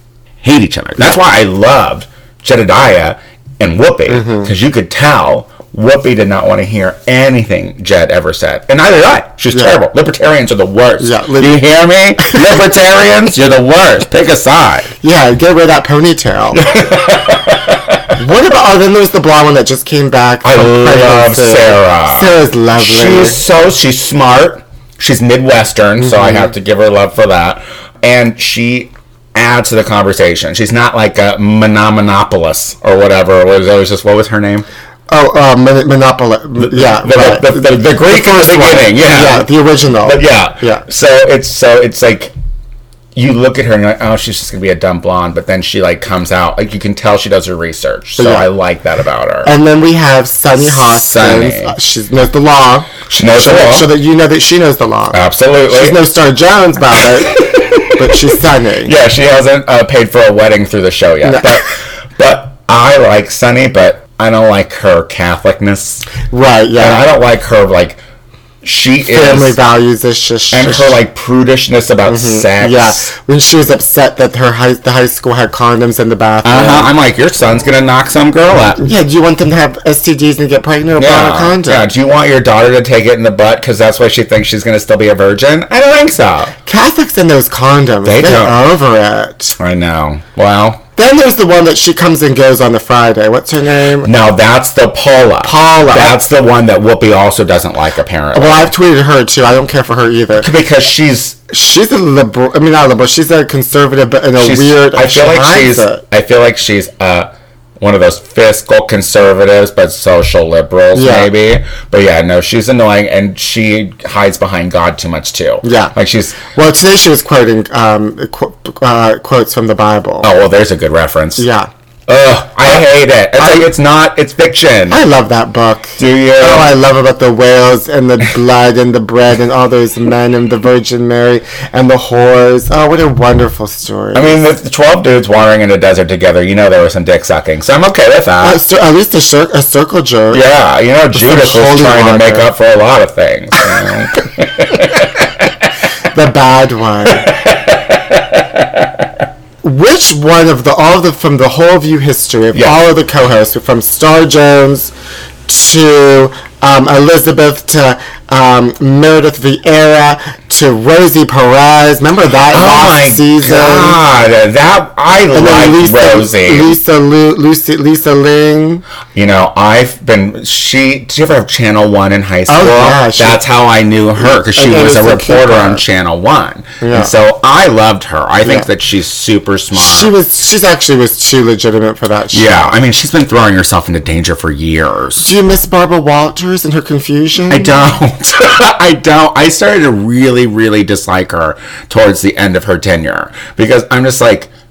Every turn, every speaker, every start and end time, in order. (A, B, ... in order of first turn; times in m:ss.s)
0:00.4-0:14.9 A
0:04.1-0:04.5 B
0:09.5-0:09.8 B
0:11.0-0:12.5 B
0:15.0-0:16.7 B
0:16.6-0:18.1 A
0:18.2-0:23.4 B
0:20.4-0:34.7 A
0:26.0-0:26.5 B
0:35.1-0:40.9 B
0:36.6-0:39.5 A
0:40.0-0:42.3 A
0:43.2-0:49.5 A
0:48.2-0:48.5 B
0:49.4-0:58.9 B
0:50.6-0:51.7 A
0:53.0-0:53.9 A
0:55.1-0:56.0 A
0:57.2-1:06.1 A
1:01.2-1:01.6 B
1:06.3-1:07.1 B
1:06.8-1:08.0 A
1:08.6-1:09.6 A
1:09.1-1:11.0 B
1:10.5-1:13.1 A
1:12.1-1:16.9 B
1:16.4-1:18.9 A
1:18.8-1:21.9 B
1:21.0-1:26.5 A
1:26.6-1:29.6 B
1:28.0-1:28.6 A
1:29.6-1:30.8 A
1:31.0-1:34.1 B
1:34.0-1:38.7 A
1:35.4-1:36.2 B
1:38.3-1:40.5 B
1:40.4-1:41.4 A
1:41.5-1:46.0 B
1:44.4-1:56.4 A
1:50.9-1:51.3 B
1:55.6-1:56.0 B
1:56.5-2:00.3 B
2:00.2-2:01.5 A
2:01.4-2:01.7 B
2:02.1-2:05.0 A
2:03.4-2:03.7 B
2:04.9-2:14.4 B
2:06.0-2:06.8 A
2:14.1-2:18.6 A
2:18.4-2:20.4 B
2:20.3-2:25.7 A
2:21.1-2:22.5 B
2:26.1-2:27.3 B
2:27.1-2:29.0 A
2:29.6-2:34.9 B
2:32.6-2:32.8 A
2:35.5-2:44.0 B
2:42.5-2:46.8 A
2:45.3-2:48.8 B
2:49.2-3:00.1 A
2:52.5-2:53.4 B
2:54.2-2:55.8 B
2:56.8-2:57.1 B
2:59.7-3:02.8 B
3:02.3-3:05.3 A
3:05.2-3:07.7 B
3:07.5-3:14.5 A